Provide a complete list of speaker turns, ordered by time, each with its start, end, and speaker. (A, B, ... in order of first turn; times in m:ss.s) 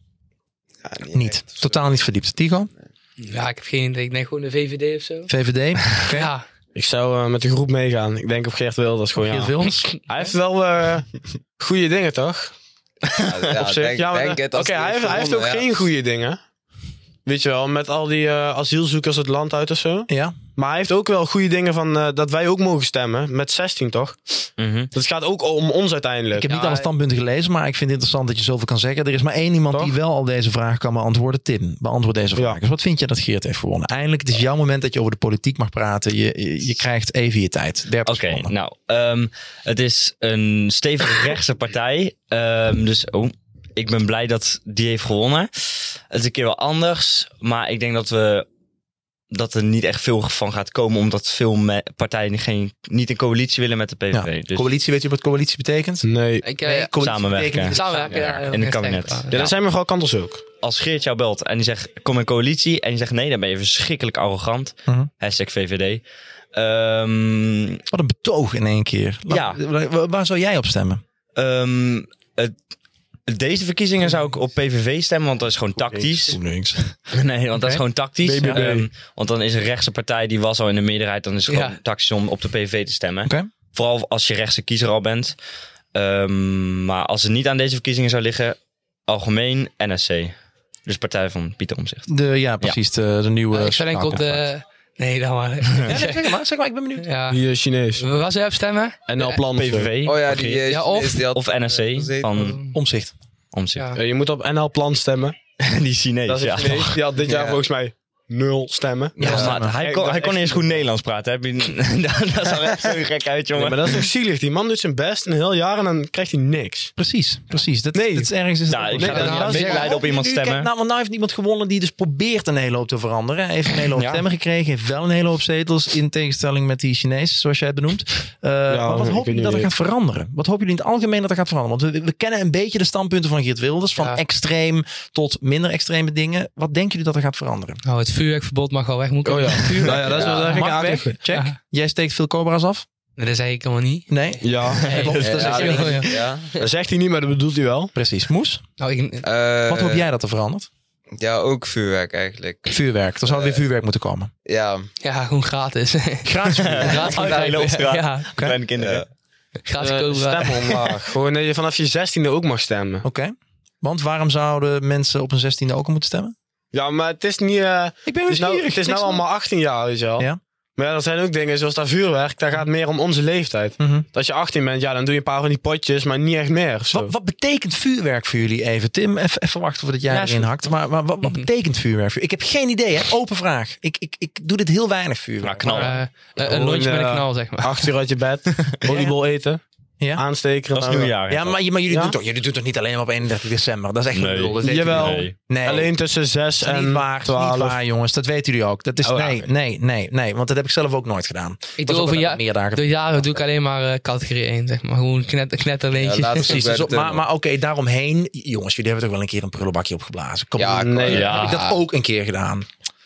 0:00.8-0:01.9 A
0:01.1-0:02.7 B
0:03.2-0:05.3 C
0:05.3-0:06.3 B
0:06.0-0:06.4 C
0:06.8-0:12.5 D
0:09.2-0:10.0 B
0:13.2-0:15.8 A
0:13.6-0:16.4 D
0:17.2-0:26.5 D
0:20.1-0:20.4 B
0:24.6-0:24.9 E
0:26.3-0:38.5 B
0:26.5-0:26.9 C
0:38.1-0:48.5 E
0:49.3-0:54.7 E
0:54.1-0:58.5 B
0:56.0-0:56.5 D
0:56.4-0:56.9 C
0:57.0-0:59.6 E
0:57.7-0:59.4 C
0:59.3-1:00.4 D
1:00.6-1:06.0 E
1:06.5-1:07.8 E
1:07.9-1:11.0 B
1:09.3-1:09.6 E
1:11.4-1:12.5 E
1:13.3-1:16.4 E
1:15.8-1:17.0 B
1:17.1-1:25.4 E
1:17.6-1:17.8 B
1:18.2-1:18.9 D
1:21.5-1:21.8 C
1:23.2-1:23.5 B
1:25.9-1:30.4 E
1:30.9-1:32.1 E
1:32.1-1:34.5 B
1:33.5-1:36.2 C
1:35.9-1:37.1 B
1:37.0-1:37.4 C
1:37.3-1:38.0 D
1:38.0-1:39.4 C
1:39.1-1:40.0 D
1:39.5-1:40.6 E
1:40.0-1:42.3 A
1:40.7-1:41.3 C
1:41.3-1:42.6 E
1:42.4-1:42.8 C
1:42.7-1:43.1 B
1:43.5-1:43.9 E
1:44.0-1:45.4 D
1:45.6-1:47.0 E
1:46.3-1:50.7 D
1:47.2-1:47.6 A
1:49.2-1:49.6 A
1:49.2-1:49.8 B
1:49.2-1:54.1 E
1:53.5-1:56.9 D
1:57.0-2:17.8 B
1:57.9-1:58.3 D
1:58.7-2:00.7 E
1:59.0-1:59.8 D
1:59.0-1:59.9 C
2:03.9-2:04.2 E
2:08.7-2:09.7 D
2:17.8-2:20.0 C
2:19.2-2:21.2 D
2:19.6-2:22.9 B
2:20.1-2:20.6 A
2:23.2-2:26.7 C
2:24.1-2:26.1 B
2:24.4-2:24.9 D
2:25.2-2:26.5 A
2:26.6-2:27.9 D
2:28.0-2:28.6 B
2:28.8-2:29.3 C
2:29.2-2:30.1 A
2:29.7-2:30.7 B
2:31.2-2:33.6 A
2:32.7-2:34.3 B
2:34.4-2:34.9 A
2:35.0-2:38.3 C
2:36.2-2:37.2 B
2:36.6-2:39.0 E
2:37.1-2:37.5 A
2:38.8-2:39.1 A
2:39.7-2:40.6 C
2:39.8-2:43.0 D
2:43.0-2:46.4 B
2:46.7-2:57.1 D
2:48.0-2:49.2 B
2:53.8-2:54.1 B
2:56.9-3:06.0 B
3:00.1-3:00.5 C
3:05.4-3:06.0 E
3:05.6-3:07.9 C
3:06.4-3:09.6 D
3:10.2-3:11.2 D
3:10.8-3:11.6 E
3:11.3-3:15.9 B
3:11.9-3:12.2 D
3:14.1-3:15.4 E
3:14.6-3:17.8 D
3:16.6-3:22.9 B
3:19.0-3:19.5 D
3:21.8-3:26.6 C
3:26.0-3:27.2 A
3:26.4-3:32.7 B
3:30.6-3:31.8 A
3:30.8-3:31.3 D
3:31.1-3:31.6 E